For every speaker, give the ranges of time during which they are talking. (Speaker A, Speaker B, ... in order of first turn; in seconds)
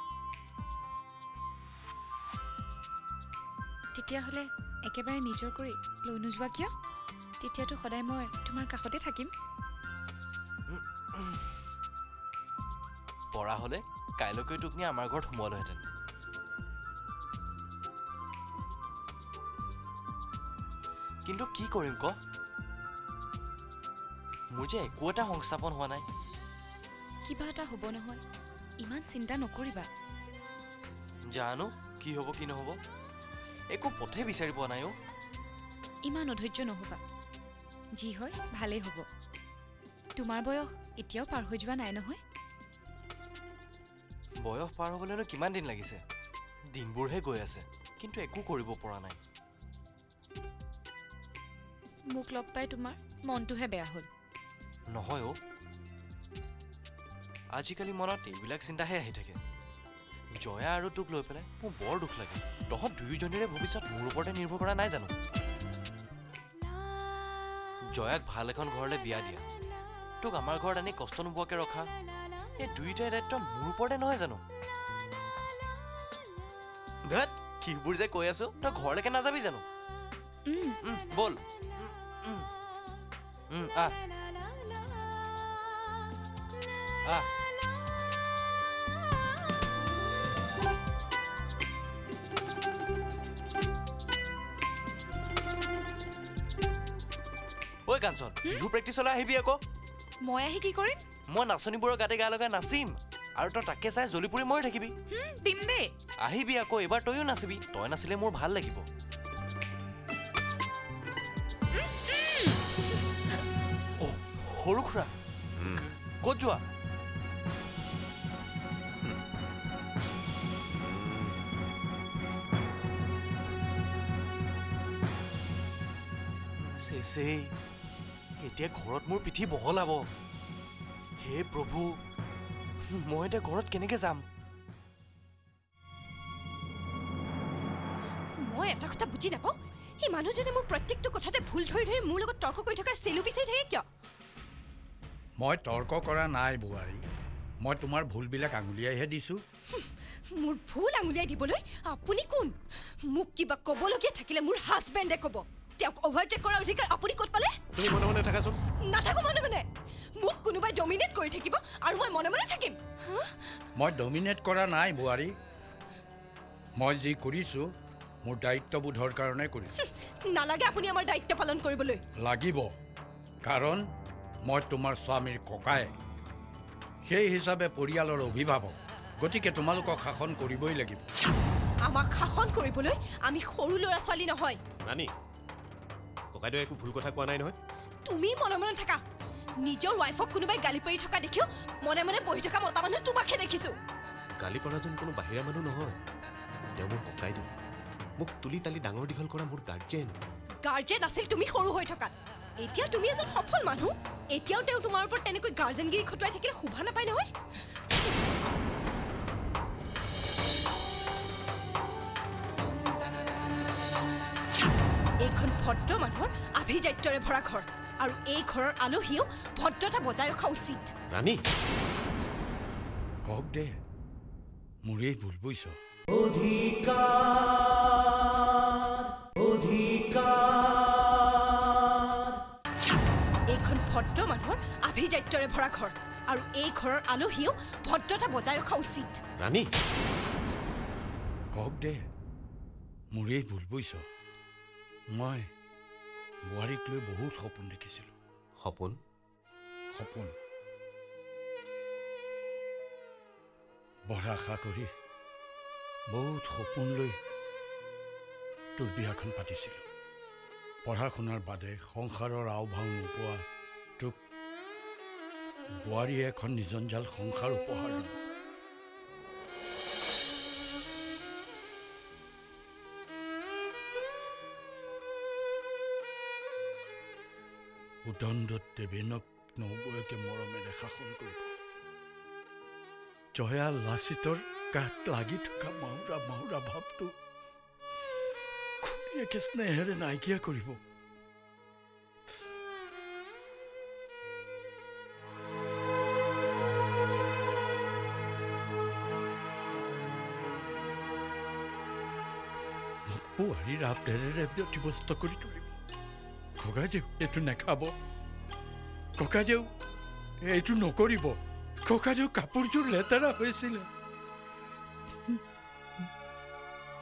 Speaker A: 3.9-6.7, 7.4-9.3, 27.3-28.2, 28.8-29.9, 36.0-37.0, 38.0-39.0, 40.2-42.2, 52.1-54.1, 80.5-80.8, 100.2-101.0, 105.1-105.9, 111.8-112.6
Speaker B: 10.7-11.4, 13.3-15.8, 21.2-22.2, 24.5-26.1, 31.3-32.8, 33.7-34.9, 44.4-46.0, 46.7-49.2, 54.9-55.4, 57.6-59.4, 60.3-65.1, 67.9-69.4, 70.2-71.9, 72.6-74.4, 77.0-79.6, 80.8-82.5, 83.5-84.0, 97.9-99.6, 101.3-104.9, 106.2-108.8, 114.0-115.1, 115.7-116.6, 126.7-127.5, 128.4-130.1, 131.2-131.9, 132.9-134.2
Speaker C: 115.6-115.8, 120.8-121.3, 157.8-158.6, 184.8-185.1, 186.3-187.6, 194.3-196.0, 196.8-197.5, 198.2-200.2, 221.1-221.4, 239.4-239.7, 248.6-249.0
Speaker D: 138.4-143.8, 149.8-157.6, 158.8-163.4, 169.8-172.0, 181.8-184.6, 188.1-189.0, 189.6-193.8, 200.6-207.3, 215.2-220.9, 233.5-239.2
Speaker E: 145.4-147.0, 147.6-149.4, 163.8-165.3, 166.8-167.7, 168.2-169.7, 172.2-172.7, 173.4-173.8, 174.5-175.9, 177.1-181.0, 223.3-223.7, 224.8-225.8, 241.5-242.0, 243.1-244.0, 245.1-245.5, 246.5-248.1, 249.9-250.3, 254.1-254.9, 256.1-257.2, 258.8-259.9, 260.8-263.4, 265.8-268.2, 278.1-281.6, 283.3-287.1, 288.8-290.8, 303.1-305.8, 306.6-307.9, 309.2-309.7, 310.4-313.9